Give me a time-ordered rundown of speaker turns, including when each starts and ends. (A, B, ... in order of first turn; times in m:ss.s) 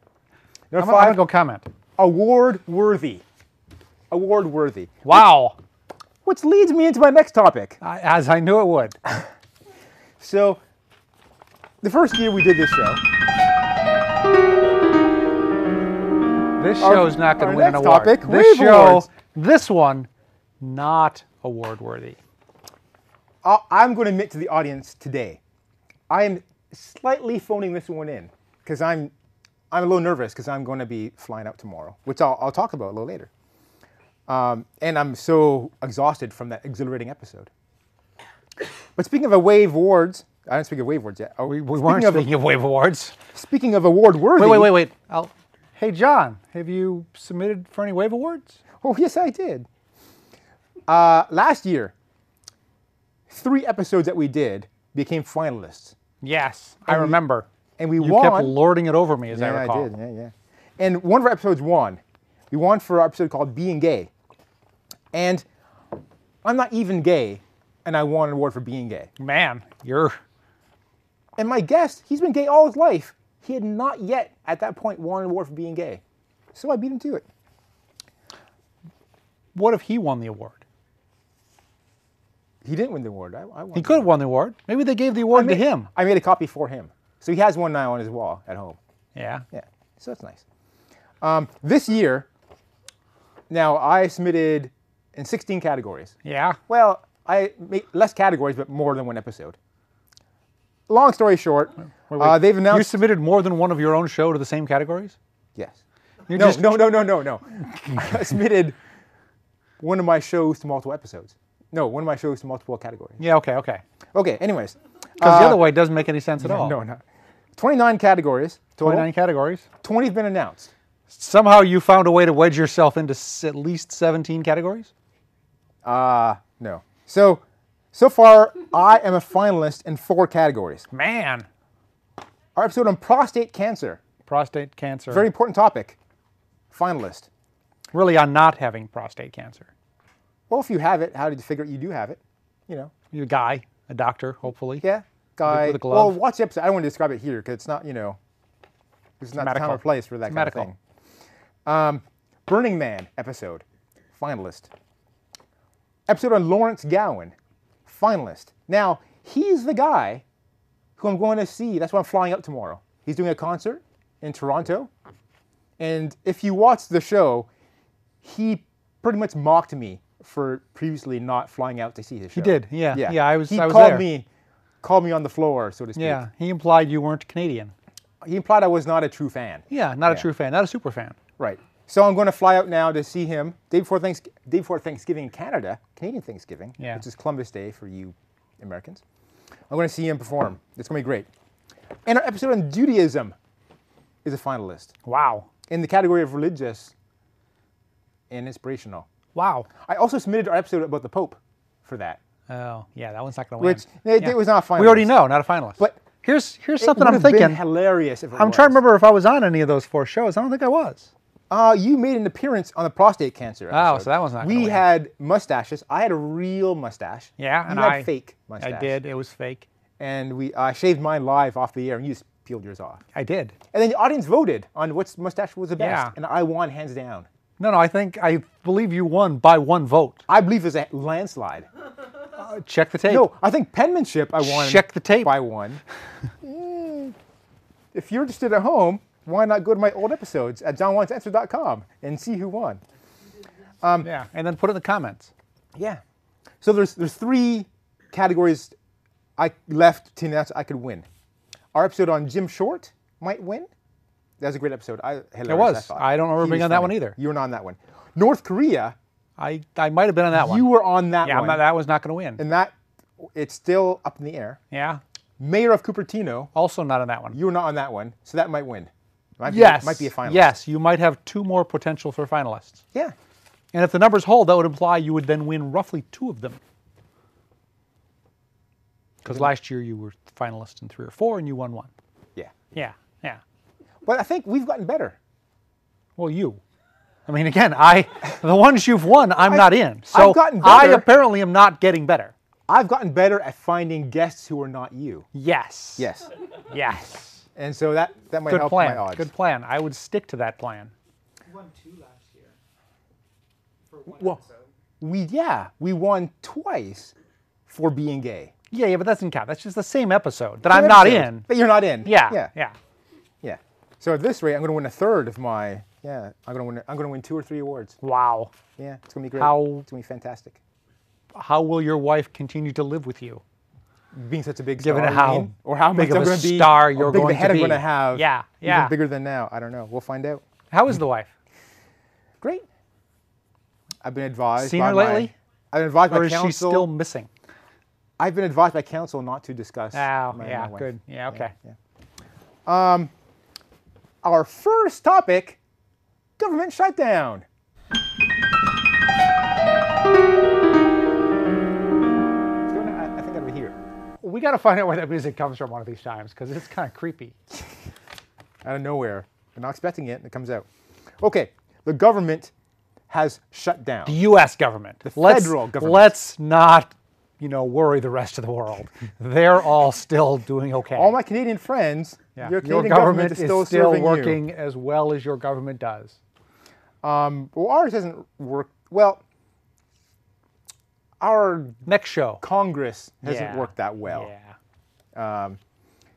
0:00.7-0:01.2 A
0:00.8-0:01.7 B
0:02.0-0:03.2 A
0:04.1-0:05.2 A
0:05.0-0:05.6 B
0:06.2-0:07.8 A
0:07.8-0:09.0 B
0:10.2-0:10.6 A
0:11.8-0:13.0 A
0:16.6-0:20.1 B
0:16.8-0:19.1 A
0:20.6-0:22.2 B
0:23.4-0:25.4 A
0:26.1-0:29.1 A
0:29.7-0:33.3 A
0:34.3-0:37.5 A
0:39.0-0:42.3 A
0:41.4-0:43.2 B
0:43.3-0:44.8 A
0:44.4-0:48.6 B
0:48.8-0:49.7 A
0:50.9-0:51.9 A
0:53.3-0:56.0 A
0:56.2-0:57.5 B
0:56.9-0:57.2 A
0:57.8-0:58.6 A
0:58.0-0:59.9 B
0:59.3-1:04.1 A
1:05.1-1:05.4 A
1:06.4-1:09.1 A
1:09.2-1:10.2 B
1:11.4-1:16.0 A
1:16.5-1:17.2 A
1:19.5-1:20.6 B
1:22.6-1:24.1 A
1:23.7-1:25.9 B
1:25.3-1:28.8 A
1:29.1-1:29.4 B
1:29.5-1:30.4 A
1:31.2-1:32.3 A
1:33.5-1:36.2 A
1:36.2-1:36.6 B
1:36.7-1:39.6 A
1:40.9-1:43.0 A
1:42.1-1:45.2 B
1:45.6-1:48.8 A
1:46.3-1:47.0 B
1:47.6-1:48.2 B
1:49.8-1:53.2 A
1:53.2-1:53.8 B
1:54.1-1:55.6 A
1:55.2-1:56.8 B
1:56.4-1:57.0 A
1:57.6-1:59.1 A
1:58.8-1:59.6 B
1:59.8-2:00.7 A
2:01.1-2:04.9 B
2:05.8-2:10.9 A
2:10.9-2:11.4 B
2:12.5-2:14.0 A
2:14.3-2:15.3 B
2:15.1-2:16.0 A
2:16.7-2:17.3 A
2:17.9-2:19.7 B
2:20.5-2:22.9 A
2:23.1-2:24.8 B
2:24.8-2:28.2 A
2:25.4-2:26.2 B
2:29.2-2:30.8 A
2:29.4-2:30.7 B
2:31.6-2:34.7 A
2:36.1-2:40.2 A
2:41.0-2:44.9 A
2:45.8-2:47.5 A
2:48.2-2:54.3 A
2:52.3-2:54.1 B
2:54.8-2:56.2 A
2:56.0-2:57.7 B
2:58.2-3:00.2 A
2:59.7-3:01.2 B
3:01.4-3:09.0 A
3:06.8-3:07.0 B
3:09.7-3:11.3 A
3:12.0-3:13.4 A
3:14.2-3:14.9 A
3:15.0-3:15.5 B
3:15.7-3:16.9 A
3:18.3-3:19.1 A
3:19.3-3:19.7 B
3:19.7-3:22.2 A
3:22.5-3:27.6 B
3:23.6-3:25.2 A
3:26.8-3:28.8 A
3:28.3-3:31.1 B
3:31.5-3:39.0 A
3:33.7-3:34.8 B
3:37.4-3:39.6 B
3:40.0-3:43.0 A
3:43.1-3:43.6 B
3:43.7-3:47.3 A
3:45.8-3:46.1 B
3:47.6-3:50.2 B
3:50.3-3:51.7 A
3:52.4-3:53.3 B
3:53.1-3:55.8 A
3:54.4-3:55.4 B
3:56.4-3:57.2 A
3:57.9-4:02.8 A
4:03.1-4:03.7 C
4:03.8-4:04.1 A
4:04.0-4:05.3 B
4:05.8-4:06.0 A
4:06.6-4:08.7 A
4:09.4-4:11.0 A
4:11.7-4:13.7 A
4:14.4-4:19.0 A
4:15.5-4:17.2 B
4:19.4-4:20.7 B
4:20.3-4:21.6 A
4:21.2-4:22.4 B
4:22.4-4:24.6 A
4:24.7-4:25.0 B
4:25.4-4:26.5 A
4:26.5-4:27.4 B
4:27.3-4:30.5 A
4:29.4-4:32.8 B
4:33.7-4:36.6 B
4:39.2-4:41.9 B
4:42.7-4:43.4 B
4:44.0-4:45.2 A
4:46.2-4:46.6 B
4:47.3-4:52.3 B
4:49.4-4:51.1 A
4:52.7-4:55.3 A
4:55.3-4:56.1 B
4:56.0-4:56.3 A
4:56.7-4:57.4 B
4:57.6-4:59.3 A
4:58.4-5:00.9 B
5:01.4-5:02.6 C
5:03.9-5:04.7 C
5:04.1-5:04.4 A
5:05.0-5:07.1 A
5:07.7-5:08.5 A
5:08.7-5:11.5 B
5:10.6-5:12.5 A
5:12.0-5:12.8 B
5:13.4-5:18.0 A
5:18.0-5:18.5 B
5:18.8-5:20.6 A
5:19.4-5:19.8 B
5:21.3-5:23.4 B
5:24.1-5:30.4 A
5:24.8-5:28.9 B
5:30.7-5:31.3 B
5:32.4-5:32.6 A
5:34.0-5:36.9 A
5:34.6-5:35.3 B
5:36.1-5:37.3 B
5:38.2-5:41.8 A
5:39.9-5:41.5 B
5:42.6-5:43.1 A
5:44.2-5:45.6 A
5:46.4-5:47.4 A
5:52.7-5:53.8 A
5:54.2-5:57.3 B
5:58.6-6:00.6 A
6:01.2-6:02.5 A
6:03.1-6:04.2 A
6:04.0-6:11.2 B
6:05.0-6:06.2 A
6:10.9-6:14.4 A
6:12.4-6:16.2 B
6:17.0-6:19.2 A
6:21.2-6:21.8 A
6:21.8-6:22.4 B
6:22.4-6:24.3 A
6:23.2-6:24.6 B
6:25.1-6:25.6 A